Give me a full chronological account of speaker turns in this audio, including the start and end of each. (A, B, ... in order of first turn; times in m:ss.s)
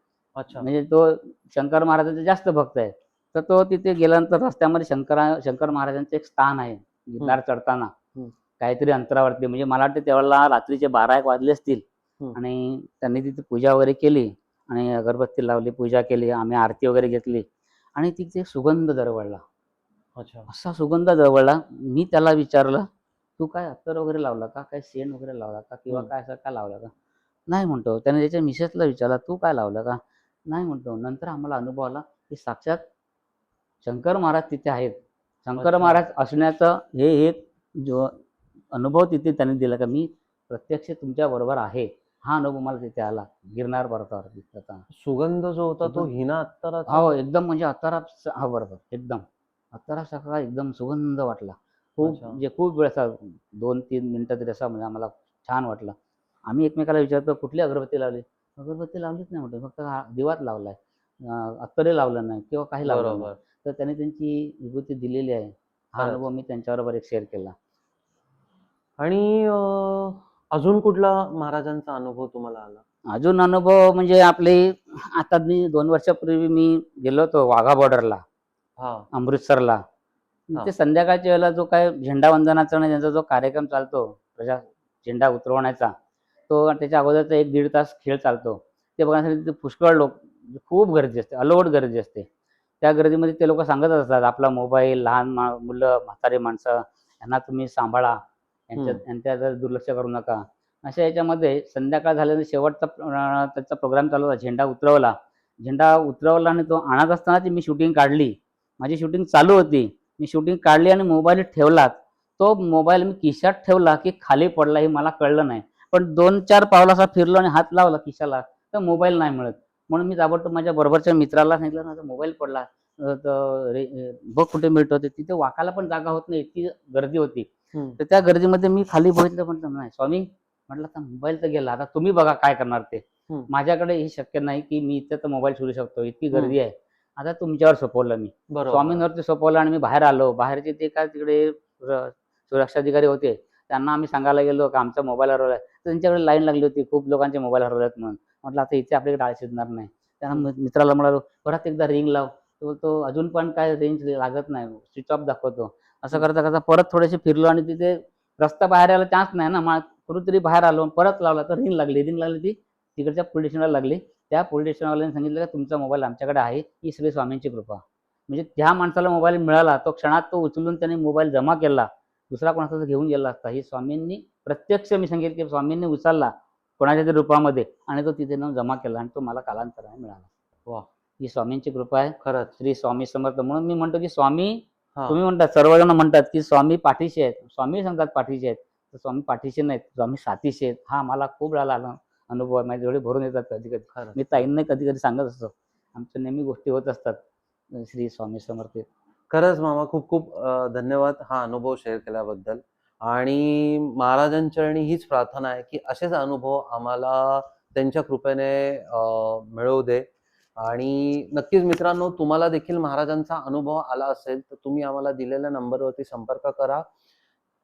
0:00.4-0:00.7 A
0:00.6-0:07.9 B
0:08.6-0:11.8 B
0:12.4-0:17.4 B
0:18.0-0:19.4 B
0:20.2-0:20.5 A
0:20.5-0:22.8 B
0:23.4-0:26.9 B
0:27.5-0:32.8 B
0:33.8-0:38.2 B
0:35.6-0:36.0 A
0:38.7-0:44.8 B
0:44.9-0:47.2 A
0:46.9-0:56.0 B
0:52.0-0:52.4 A
0:56.5-1:07.5 B
1:02.9-1:03.4 A
1:06.0-1:06.2 A
1:09.0-1:12.8 A
1:13.1-1:18.2 B
1:18.8-1:19.1 A
1:19.1-1:19.8 B
1:20.5-1:25.9 B
1:26.5-1:32.3 B
1:32.8-3:00.3 B
1:38.8-1:39.0 A
2:07.7-2:08.0 A
2:18.5-2:19.0 A
3:01.2-3:17.2 B
3:02.2-3:02.5 A
3:05.0-3:05.2 A
3:13.9-3:14.4 A
3:17.7-3:18.9 B
3:19.3-3:30.1 A
3:30.6-3:36.8 A